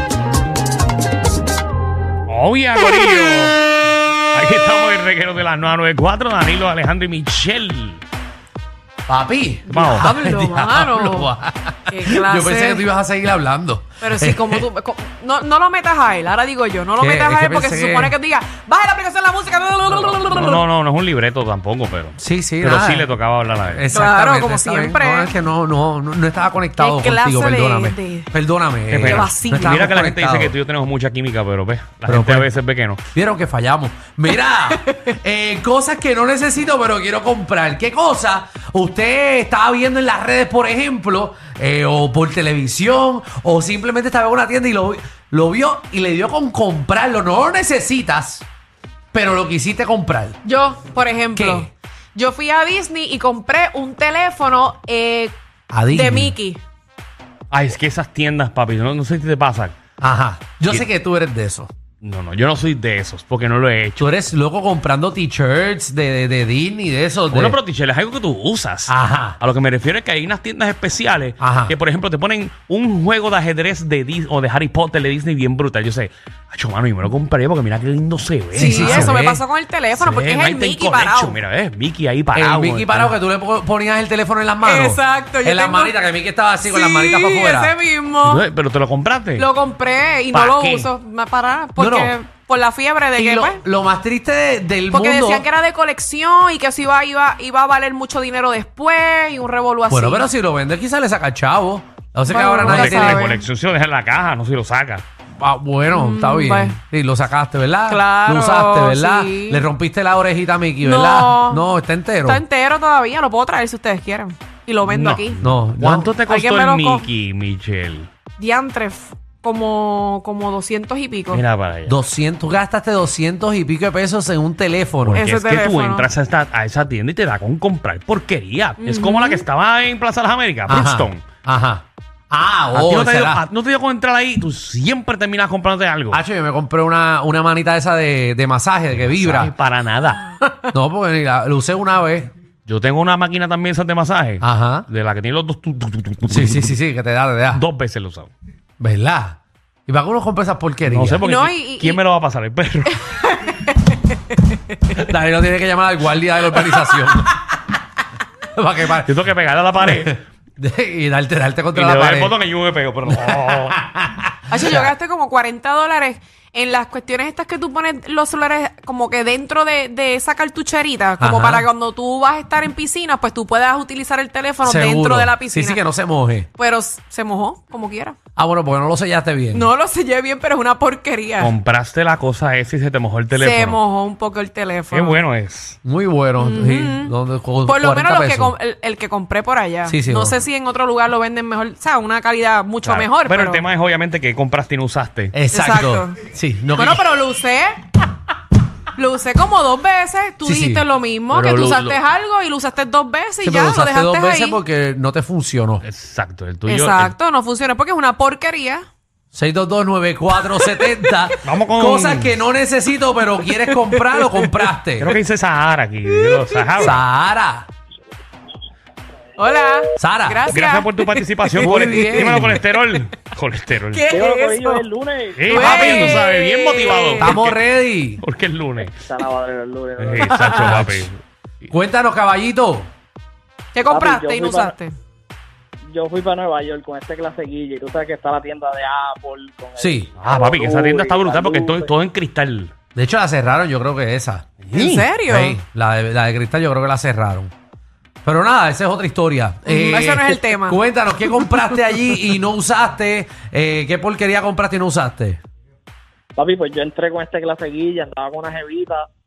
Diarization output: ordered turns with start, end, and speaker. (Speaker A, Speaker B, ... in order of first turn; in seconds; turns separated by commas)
Speaker A: 2.3-3.7, Speaker A: 4.3-8.0, Speaker B: 9.1-14.6, Speaker A: 9.7-10.7, Speaker C: 9.8-11.3, Speaker C: 11.9-12.9, Speaker C: 14.0-20.6, Speaker B: 17.0-18.2, Speaker A: 20.3-23.9, Speaker B: 22.2-23.1, Speaker B: 23.7-30.6, Speaker C: 23.9-25.3, Speaker C: 26.8-28.3, Speaker A: 28.9-33.0, Speaker C: 29.1-29.9, Speaker B: 32.1-32.5, Speaker B: 33.1-48.5, Speaker C: 34.7-35.0, Speaker B: 49.1-50.4, Speaker C: 50.5-55.4, Speaker B: 51.3-51.7, Speaker B: 55.7-56.4, Speaker C: 55.9-56.6, Speaker A: 57.5-59.8, Speaker B: 60.0-61.7, Speaker A: 62.0-64.1, Speaker B: 64.0-67.6, Speaker A: 67.3-79.2, Speaker B: 68.9-69.4, Speaker B: 71.4-71.8, Speaker B: 78.5-79.4, Speaker C: 78.6-81.4, Speaker A: 80.0-83.2, Speaker B: 82.3-87.7, Speaker C: 84.6-86.0, Speaker C: 86.6-88.5, Speaker A: 88.2-89.5, Speaker C: 89.4-93.6, Speaker A: 90.3-90.9, Speaker B: 91.8-92.1, Speaker B: 93.2-95.5, Speaker C: 94.9-100.3, Speaker B: 99.9-103.3, Speaker C: 102.3-103.5, Speaker A: 102.6-105.0, Speaker B: 105.4-112.4, Speaker C: 105.9-106.8, Speaker C: 107.9-109.7, Speaker C: 110.8-111.7, Speaker C: 112.2-115.4, Speaker A: 114.9-118.1, Speaker B: 115.4-116.2, Speaker C: 116.3-117.1, Speaker C: 118.4-121.4, Speaker A: 121.3-122.0, Speaker B: 121.9-125.3, Speaker A: 125.0-131.2, Speaker C: 125.2-126.1, Speaker C: 128.8-129.5, Speaker B: 130.7-133.4, Speaker A: 132.7-136.2, Speaker B: 136.1-139.5, Speaker A: 138.9-140.3, Speaker B: 140.7-142.3, Speaker A: 142.7-146.8, Speaker B: 144.4-144.9, Speaker B: 146.3-147.6, Speaker A: 147.5-148.3, Speaker B: 148.8-151.2, Speaker A: 150.9-153.0, Speaker C: 151.2-152.0, Speaker C: 152.9-154.6, Speaker B: 154.9-157.7, Speaker B: 158.5-159.2, Speaker A: 159.1-160.2, Speaker B: 159.8-162.4, Speaker A: 161.7-163.8, Speaker B: 163.1-164.9, Speaker C: 164.5-175.8, Speaker B: 171.2-171.7, Speaker B: 174.6-176.5, Speaker C: 176.6-178.2, Speaker B: 178.4-179.7, Speaker C: 179.5-181.5, Speaker A: 181.4-183.8, Speaker C: 183.3-185.2, Speaker A: 184.9-185.8, Speaker B: 185.8-188.5, Speaker C: 186.4-187.1, Speaker C: 187.7-193.6, Speaker B: 189.9-190.4, Speaker A: 192.8-195.3, Speaker B: 195.3-197.0, Speaker C: 195.5-196.2, Speaker C: 196.8-197.9, Speaker C: 199.0-204.6, Speaker B: 200.4-200.8, Speaker A: 201.3-202.0, Speaker B: 203.4-205.8, Speaker A: 205.8-207.1, Speaker C: 206.7-208.9, Speaker B: 209.3-215.2, Speaker C: 210.6-210.9, Speaker A: 211.4-212.4, Speaker C: 213.5-214.7, Speaker A: 215.0-217.0, Speaker C: 216.1-216.9, Speaker B: 216.8-217.7, Speaker C: 219.4-222.6, Speaker B: 220.0-220.5, Speaker A: 220.5-224.1, Speaker B: 221.6-222.6, Speaker C: 223.9-224.9, Speaker D: 224.1-226.2, Speaker A: 225.3-227.6, Speaker C: 225.5-227.4, Speaker B: 225.5-226.2, Speaker B: 227.2-228.2, Speaker A: 228.2-228.9, Speaker D: 228.9-230.8, Speaker A: 230.0-231.2, Speaker B: 230.5-231.1, Speaker B: 231.7-232.9, Speaker C: 233.8-234.9, Speaker D: 233.9-234.8, Speaker D: 235.9-241.9, Speaker B: 239.8-240.1, Speaker A: 240.2-242.7, Speaker B: 243.0-244.5, Speaker A: 244.6-245.1, Speaker C: 244.7-245.6, Speaker B: 245.2-247.5, Speaker B: 248.2-255.4, Speaker C: 249.7-250.8, Speaker D: 256.4-259.1